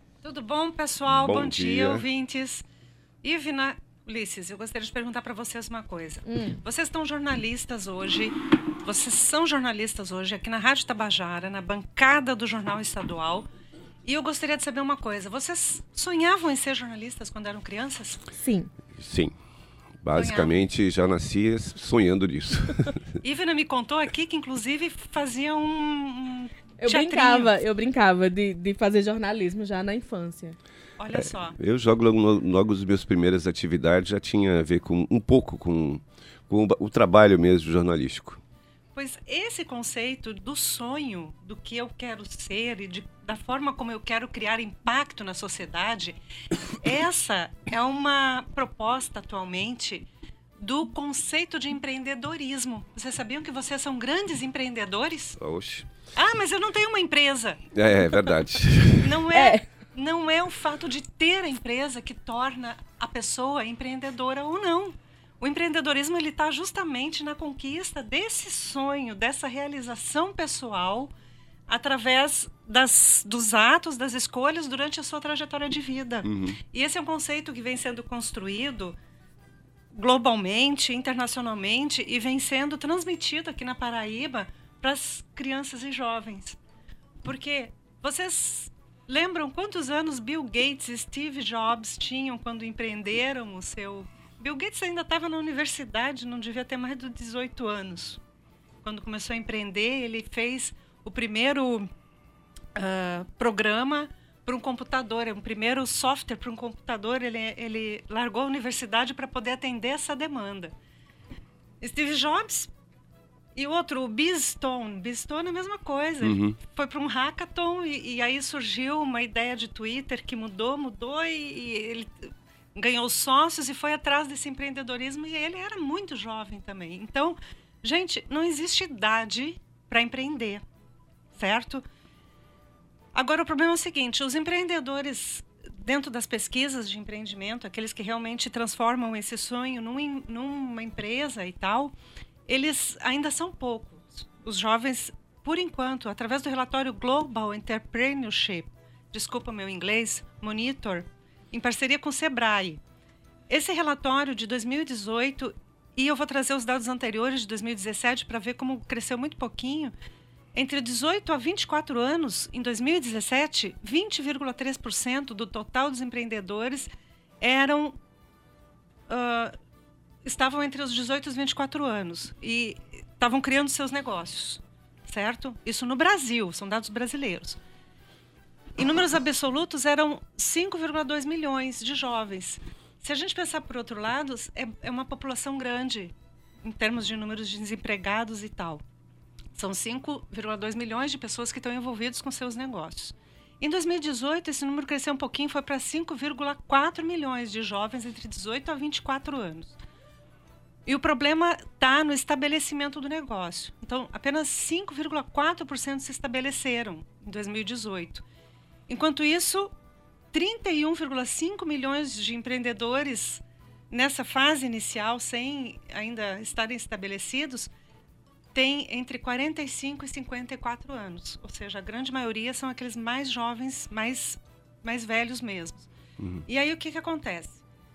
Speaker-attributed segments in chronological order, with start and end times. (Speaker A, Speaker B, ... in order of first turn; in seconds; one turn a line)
Speaker A: 0.2-2.7
Speaker B: 1.1-2.0
Speaker A: 3.2-13.5
Speaker C: 6.3-6.6
Speaker A: 14.1-18.2
Speaker C: 18.3-18.7
Speaker B: 18.9-19.4
Speaker B: 20.0-23.0
Speaker A: 20.2-20.4
Speaker A: 23.2-27.5
Speaker C: 26.8-30.6
Speaker A: 31.0-31.6
Speaker B: 31.1-38.4
Speaker A: 39.0-46.2
Speaker A: 46.8-50.1
Speaker A: 50.6-55.4
Speaker B: 55.4-55.9
Speaker A: 56.2-57.6
Speaker B: 57.8-59.2
Speaker A: 59.0-71.1
Speaker C: 59.3-59.6
Speaker A: 71.7-79.0
Speaker B: 76.2-76.6
Speaker A: 79.9-86.6
Speaker A: 87.2-98.2
Speaker A: 98.8-101.9
Speaker A: 102.8-110.7
Speaker A: 111.8-112.7
Speaker A: 113.6-130.6
Speaker B: 116.2-116.6
Speaker A: 131.3-131.8
Speaker A: 133.1-141.9
Speaker A: 142.5-152.8
Speaker A: 153.5-159.9
Speaker A: 160.6-166.9
Speaker A: 167.4-168.0
Speaker A: 169.1-169.5
Speaker A: 170.2-177.6
Speaker A: 178.8-186.1
Speaker A: 186.6-188.8
Speaker A: 189.6-199.8
Speaker A: 200.9-208.2
Speaker A: 208.9-209.7
Speaker A: 210.3-217.7
Speaker A: 218.6-225.9
Speaker A: 226.5-227.6